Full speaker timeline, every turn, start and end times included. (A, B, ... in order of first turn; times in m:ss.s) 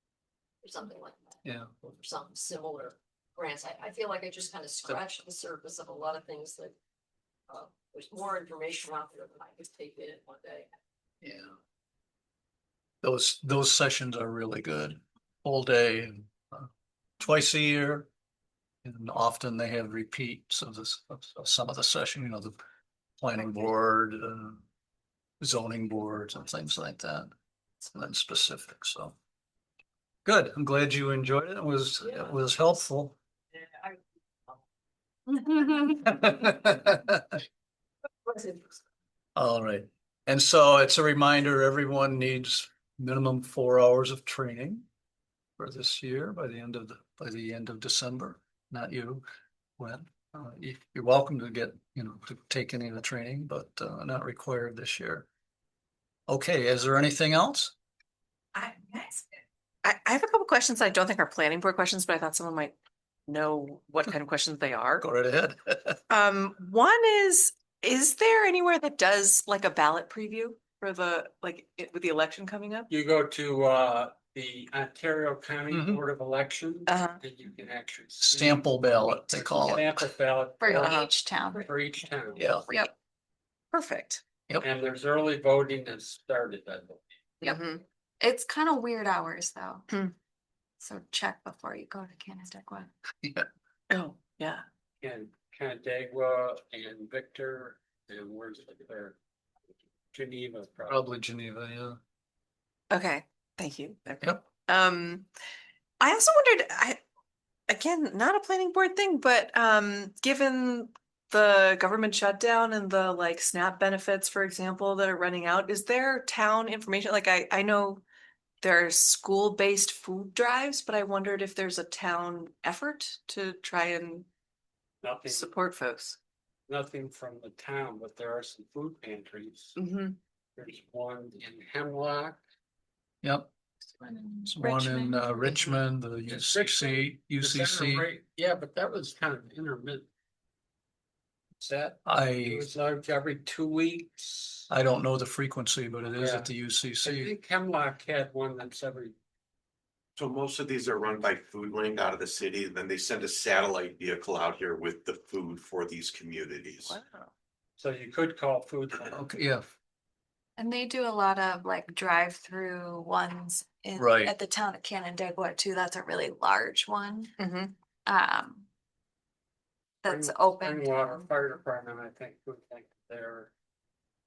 0:00.6-0:06.7 A
0:01.4-0:01.8 B
0:07.5-0:10.7 A
0:11.2-0:11.5 B
0:13.0-0:18.1 B
0:18.8-0:22.5 B
0:23.2-0:24.6 B
0:25.4-0:27.3 B
0:27.8-0:29.1 B
0:30.2-0:33.1 B
0:33.6-0:34.0 A
0:35.5-0:36.4 A
0:35.8-0:37.3 B
0:38.2-0:38.8 A
0:39.4-0:44.8 B
0:45.6-0:49.2 B
0:49.8-0:55.3 B
0:56.3-0:57.7 B
0:58.5-0:59.2 C
0:59.8-1:02.8 C
1:03.3-1:05.0 C
1:05.0-1:06.0 B
1:06.1-1:12.9 C
1:12.9-1:22.6 D
1:15.7-1:16.0 B
1:16.9-1:17.2 C
1:18.2-1:20.0 B
1:20.6-1:21.6 E
1:20.8-1:21.1 C
1:22.4-1:22.7 B
1:23.7-1:24.2 C
1:24.6-1:27.0 D
1:27.4-1:27.8 C
1:28.2-1:29.8 E
1:30.8-1:32.9 E
1:33.9-1:34.6 C
1:35.0-1:39.2 D
1:40.1-1:41.0 D
1:40.9-1:42.0 B
1:42.9-1:45.2 C
1:46.0-1:47.0 C
1:47.7-1:58.0 C
1:58.6-2:04.3 C
2:05.0-2:05.5 D
2:05.3-2:06.2 C
2:06.7-2:09.7 D
2:09.8-2:10.2 C
2:10.6-2:12.4 D
2:13.2-2:13.5 B
2:14.0-2:15.5 E
2:14.4-2:18.0 B
2:16.3-2:20.1 D
2:21.6-2:24.7 D
2:22.0-2:22.7 B
2:24.7-2:27.3 B
2:26.1-2:26.5 D
2:27.0-2:29.2 D
2:30.2-2:36.9 F
2:36.8-2:37.3 C
2:37.8-2:39.2 D
2:39.1-2:39.6 B
2:40.6-2:47.3 E
2:44.0-2:44.3 B
2:47.4-2:47.7 C
2:48.0-2:48.6 E
2:50.0-2:51.2 E
2:50.0-2:53.5 D